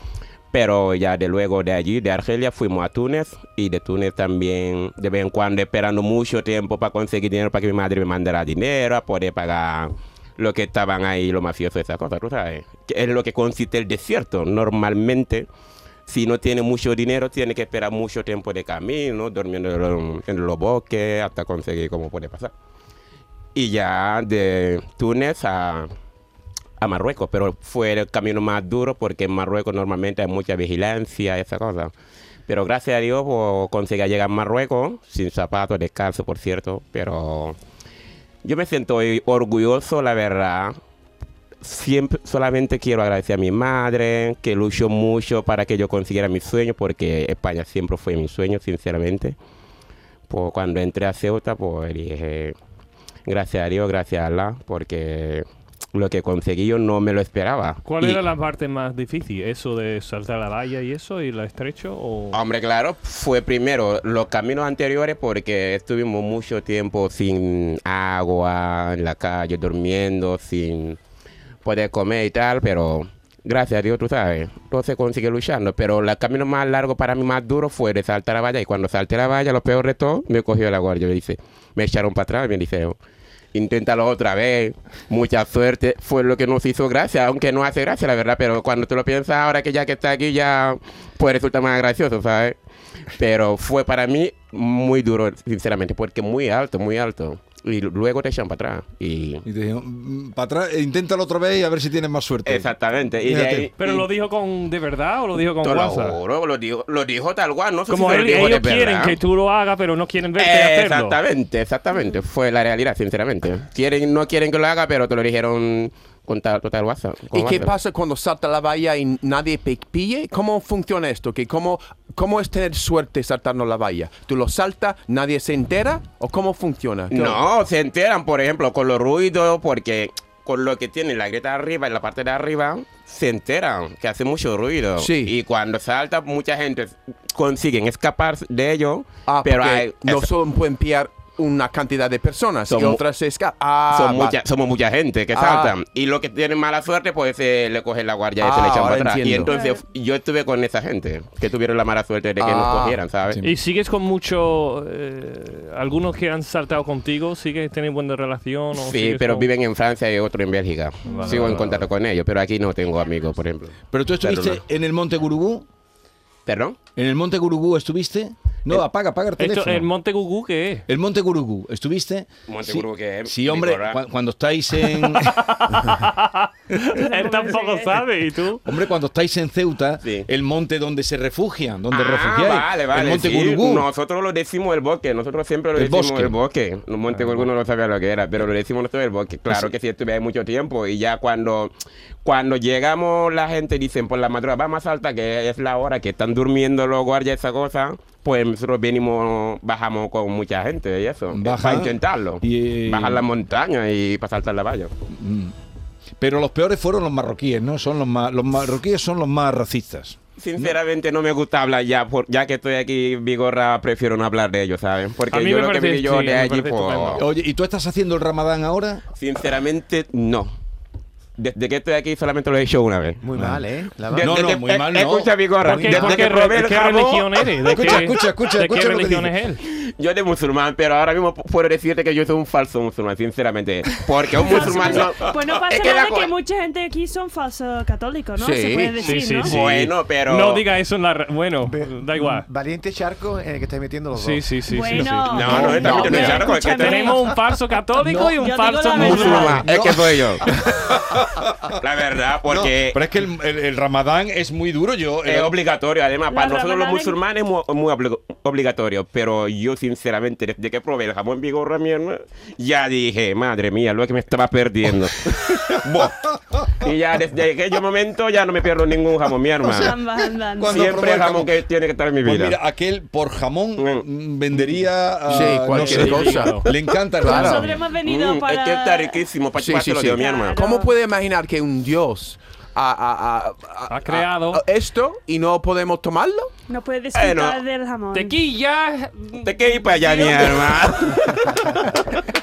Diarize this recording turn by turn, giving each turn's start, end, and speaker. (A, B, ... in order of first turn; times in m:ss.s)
0:00.5-0:15.5 A
0:16.1-0:22.5 A
0:23.6-0:25.9 A
0:26.8-0:31.9 A
0:32.5-0:37.6 A
0:38.4-0:40.8 A
0:41.6-0:49.4 A
0:50.3-0:52.6 A
0:53.3-0:58.2 A
0:57.9-1:02.4 B
1:02.3-1:11.0 A
1:11.6-1:23.0 A
1:23.5-1:32.6 A
1:33.2-1:39.4 A
1:39.4-1:42.7 C
1:42.5-1:44.1 A
1:43.2-1:43.7 C
1:43.8-1:46.2 B
1:45.6-1:49.2 A
1:47.9-1:51.2 B
1:50.4-1:57.7 A
1:57.3-2:07.4 D
2:07.1-2:20.3 A
2:15.0-2:15.3 D
2:19.3-2:24.4 D
2:22.7-2:23.0 A
2:23.9-2:33.4 A
2:25.3-2:25.8 D
2:28.4-2:29.5 D
2:29.5-2:29.8 E
2:32.4-2:33.0 D
2:33.4-2:39.5 B
2:38.8-2:44.6 A
2:41.1-2:41.7 B
2:43.9-2:45.6 C
2:46.5-2:46.8 A
2:47.0-2:49.9 C
2:49.4-2:50.8 B
2:50.9-2:55.4 C
2:52.5-2:54.0 A
2:54.9-2:58.6 B
2:57.0-2:58.0 E
2:58.6-3:03.9 C
3:01.9-3:11.7 A
3:05.8-3:06.4 C
3:12.2-3:24.9 A
3:21.3-3:23.2 C
3:25.1-3:25.5 C
3:26.2-3:30.8 C
3:30.4-3:37.2 A
3:35.3-3:37.2 B
3:37.2-3:39.0 C
3:39.2-3:40.5 A
3:41.4-3:43.2 A
3:43.2-3:44.4 F
3:43.4-3:43.6 C
3:44.1-3:47.3 A
3:44.2-3:45.3 C
3:45.6-3:49.6 B
3:45.9-3:46.2 C
3:47.7-3:49.3 C
3:49.8-3:56.3 A
3:54.4-3:59.6 E
3:58.4-3:59.0 D
3:59.0-4:02.5 B
3:59.4-4:00.6 A
4:01.6-4:05.3 F
4:04.1-4:09.6 B
4:04.7-4:07.2 E
4:05.3-4:07.1 A
4:08.1-4:08.3 C
4:08.1-4:09.6 E
4:09.0-4:10.4 A
4:09.0-4:11.5 C
4:11.8-4:13.0 A
4:12.5-4:15.6 C
4:15.3-4:26.2 A
4:16.3-4:17.2 E
4:25.3-4:26.6 C
4:26.8-4:30.0 A
4:29.7-4:30.0 C
4:29.7-4:31.0 E
4:30.6-4:31.5 C
4:30.7-4:32.6 A
4:32.2-4:37.7 C
4:33.8-4:34.0 A
4:35.3-4:36.7 D
4:35.4-4:36.7 B
4:37.2-4:39.2 E
4:37.2-4:37.7 D
4:38.0-4:40.6 A
4:39.6-4:46.5 D
4:40.2-4:40.9 E
4:43.9-4:44.6 B
4:46.7-4:48.4 E
4:47.2-4:47.6 A
4:48.1-4:50.5 B
4:49.4-4:51.8 A